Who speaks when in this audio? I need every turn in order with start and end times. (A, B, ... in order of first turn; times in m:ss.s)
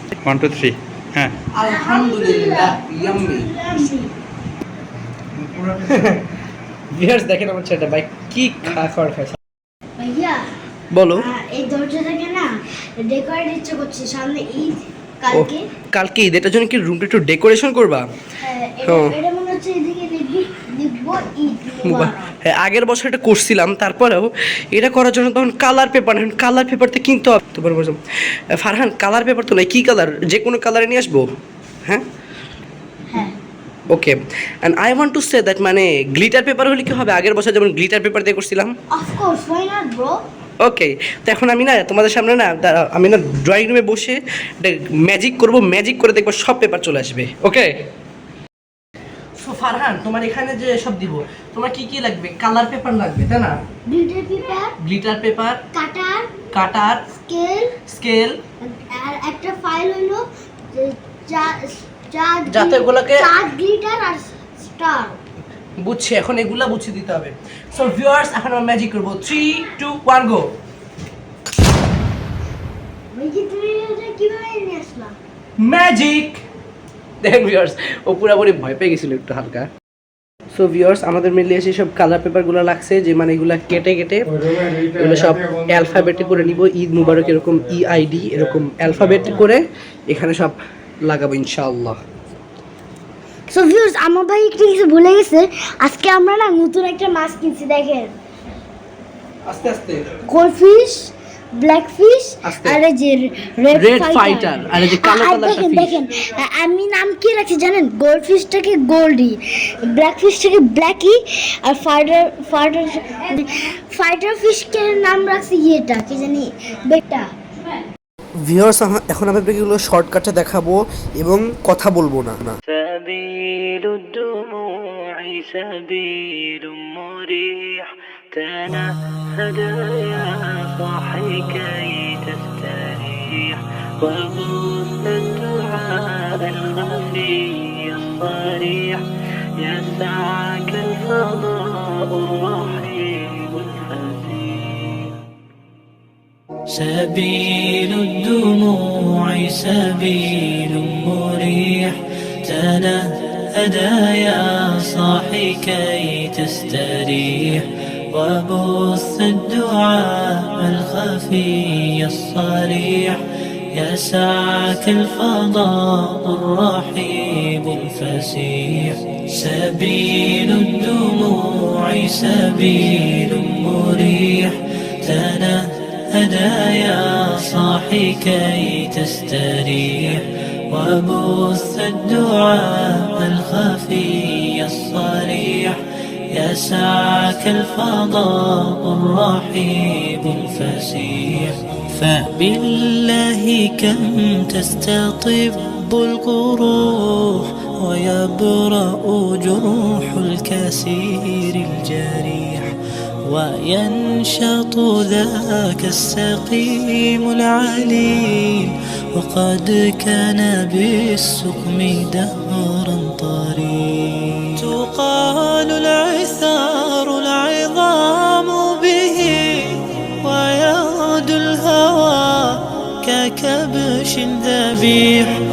0:00.2-0:01.4 A
0:01.6-0:03.5 B
0:01.6-0:04.1 C
0:05.3-0:06.1 A
0:05.9-0:06.3 B
0:06.9-0:09.4 B
0:10.0-0:10.5 C
0:10.9-0:11.3 B
0:11.2-0:15.6 C
0:15.3-0:18.0 B
0:18.4-0:22.4 C
0:18.8-0:19.1 B
0:21.8-0:31.3 B
0:33.9-0:38.7 B
0:38.9-0:40.2 C
0:40.6-0:47.7 B
0:49.4-0:53.6 B
0:53.9-0:54.8 C
0:54.8-0:55.6 B
0:55.7-0:56.3 C
0:56.5-0:57.0 B
0:57.2-0:57.8 C
0:57.9-0:58.4 B
0:58.6-1:05.2 C
1:02.5-1:03.3 B
1:05.8-1:10.5 B
1:13.1-1:15.2 C
1:15.6-1:16.4 B
1:17.2-1:19.7 B
1:20.5-1:30.6 B
1:24.5-1:26.4 A
1:31.1-1:32.0 B
1:33.5-1:38.1 C
1:39.5-1:40.1 B
1:40.3-1:57.3 C
1:42.4-1:42.8 B
1:43.7-1:46.0 B
1:58.4-2:02.6 B
2:02.7-2:19.0 D
2:19.6-2:25.2 D
2:26.7-2:43.2 D
2:43.7-3:05.8 D
3:06.3-3:22.7 D
3:23.3-3:45.3 D